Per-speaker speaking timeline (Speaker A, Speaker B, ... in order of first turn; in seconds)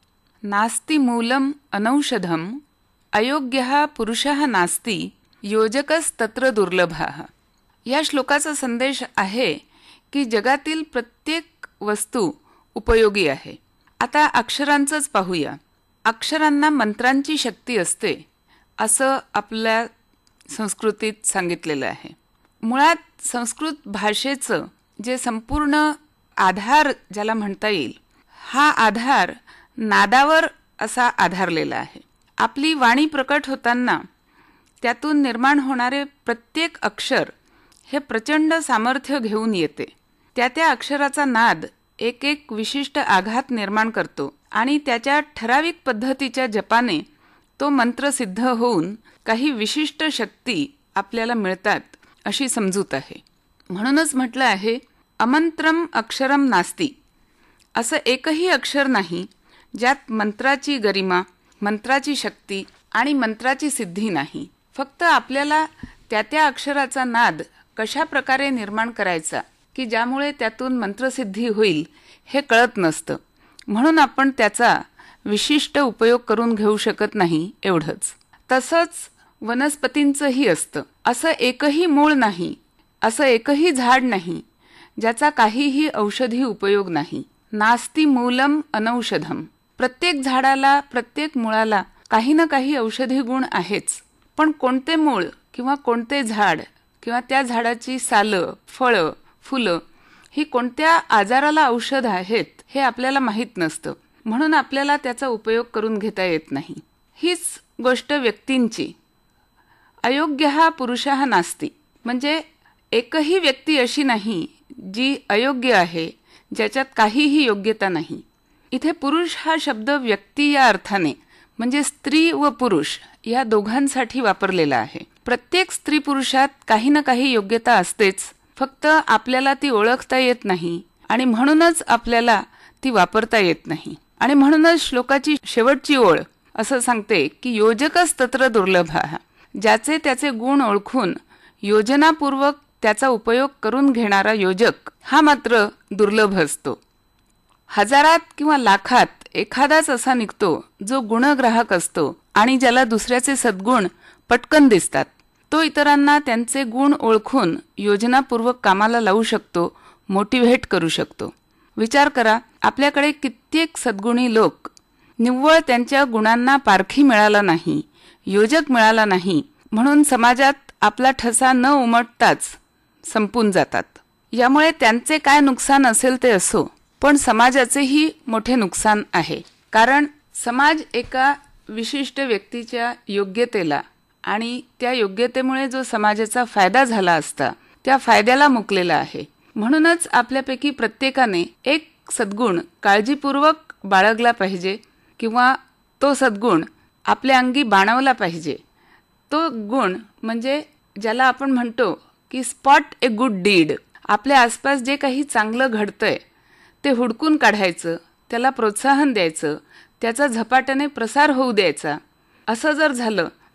Speaker A: 0.5-2.6, 3.1-7.3, 7.8-18.2, 18.8-19.9, 20.5-34.0, 34.8-37.3, 37.9-47.0, 47.6-56.9, 57.8-84.4, 85.0-108.9, 110.0-146.8, 147.7-198.6, 199.3-206.2, 206.8-213.3